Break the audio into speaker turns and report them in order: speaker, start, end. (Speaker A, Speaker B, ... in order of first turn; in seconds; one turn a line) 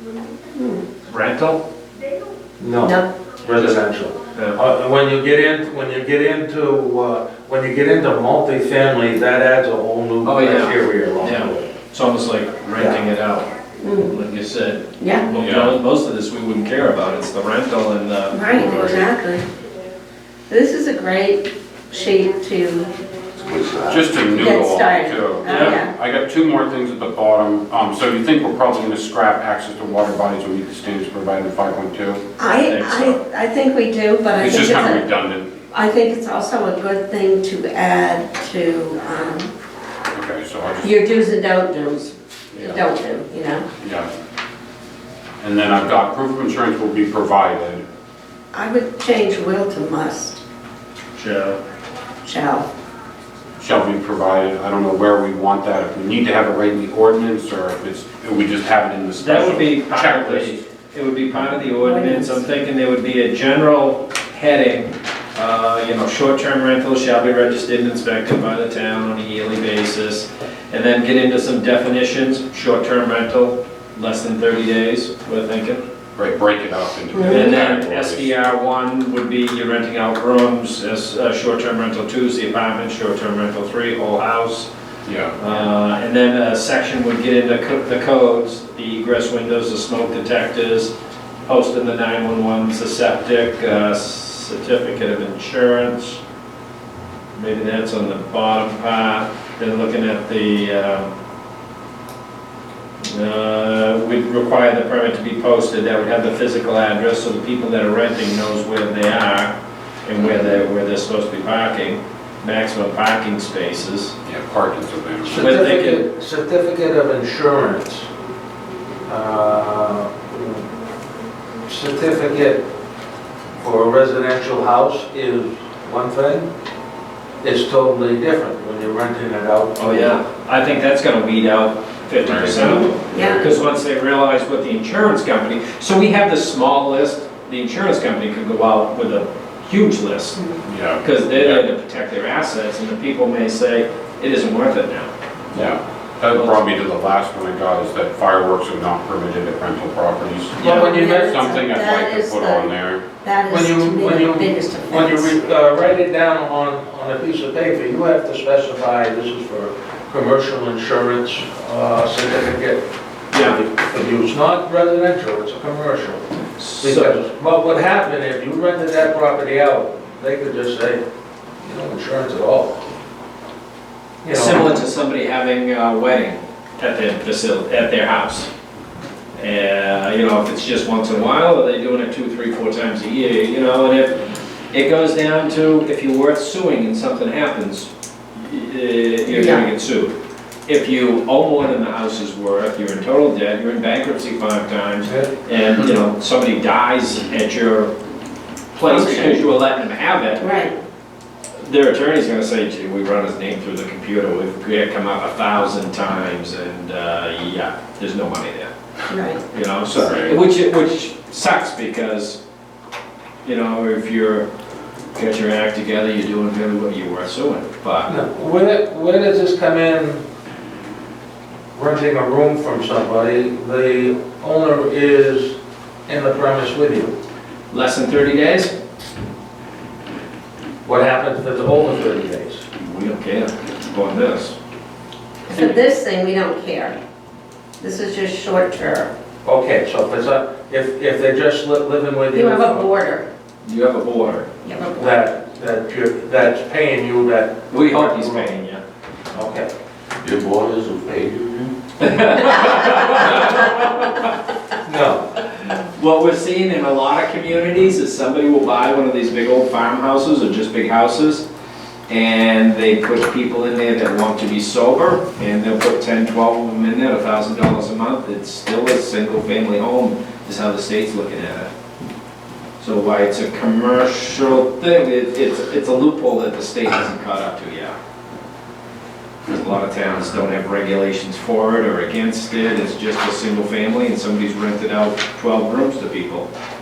Speaker A: 0.5-0.9
Speaker B: 1.1-1.6
Speaker C: 2.6-11.7
Speaker A: 2.8-3.3
Speaker B: 4.3-4.6
Speaker B: 10.2-13.5
Speaker C: 12.8-13.0
Speaker A: 13.8-14.2
Speaker B: 14.1-18.4
Speaker A: 15.0-15.3
Speaker D: 15.4-15.8
Speaker A: 18.3-19.4
Speaker D: 18.5-19.1
Speaker A: 20.5-22.9
Speaker E: 23.4-24.2
Speaker D: 23.9-32.2
Speaker A: 24.3-25.9
Speaker B: 25.5-25.8
Speaker A: 32.4-35.0
Speaker B: 32.4-33.2
Speaker D: 34.4-35.6
Speaker A: 35.7-39.5
Speaker D: 40.1-40.9
Speaker A: 40.8-43.7
Speaker D: 42.5-42.9
Speaker D: 43.8-44.1
Speaker D: 45.4-47.8
Speaker A: 48.5-50.4
Speaker B: 51.2-51.6
Speaker A: 52.2-52.7
Speaker D: 53.6-60.6
Speaker B: 59.2-75.8
Speaker A: 61.8-62.4
Speaker D: 76.2-78.3
Speaker A: 77.1-77.5
Speaker B: 77.2-84.7
Speaker D: 85.0-85.4
Speaker B: 85.4-90.9
Speaker B: 91.5-96.2
Speaker B: 97.3-101.1
Speaker B: 103.0-114.2
Speaker D: 114.2-115.4
Speaker C: 115.2-118.1
Speaker B: 115.4-116.0
Speaker C: 119.1-120.7
Speaker C: 121.7-122.6
Speaker C: 123.6-126.5
Speaker C: 127.4-130.2
Speaker B: 129.8-140.4
Speaker D: 132.2-133.4
Speaker A: 132.8-133.4
Speaker D: 140.7-141.7
Speaker B: 141.0-145.1
Speaker D: 145.5-153.0
Speaker B: 146.3-146.6
Speaker C: 150.6-151.3
Speaker A: 150.6-155.4
Speaker C: 153.5-166.3
Speaker B: 163.3-163.6
Speaker B: 166.6-167.1
Speaker C: 166.8-171.0
Speaker C: 171.6-172.8
Speaker C: 174.2-174.7
Speaker B: 174.3-178.5
Speaker B: 179.4-184.2
Speaker B: 184.7-190.2
Speaker A: 189.3-189.7
Speaker B: 190.7-197.9
Speaker C: 195.1-195.3
Speaker B: 198.7-200.6
Speaker A: 198.9-199.4
Speaker A: 200.4-200.8
Speaker B: 201.6-208.7
Speaker A: 209.1-209.4
Speaker B: 209.5-212.4
Speaker D: 209.9-210.4
Speaker B: 213.4-214.5
Speaker B: 215.1-218.1
Speaker C: 218.1-220.2
Speaker C: 221.7-227.2
Speaker B: 227.7-228.7
Speaker C: 230.8-232.6
Speaker B: 232.8-234.6
Speaker B: 235.5-235.8
Speaker A: 235.5-237.0
Speaker A: 237.8-239.1
Speaker C: 239.4-242.9
Speaker A: 242.3-243.3
Speaker B: 243.6-244.5
Speaker A: 244.6-245.2
Speaker C: 245.0-248.6
Speaker B: 247.7-248.8
Speaker C: 249.3-249.7
Speaker E: 250.2-251.8
Speaker B: 252.0-254.3
Speaker C: 254.8-255.3
Speaker B: 255.7-261.5
Speaker B: 262.1-271.7
Speaker B: 272.8-278.0
Speaker B: 279.5-286.5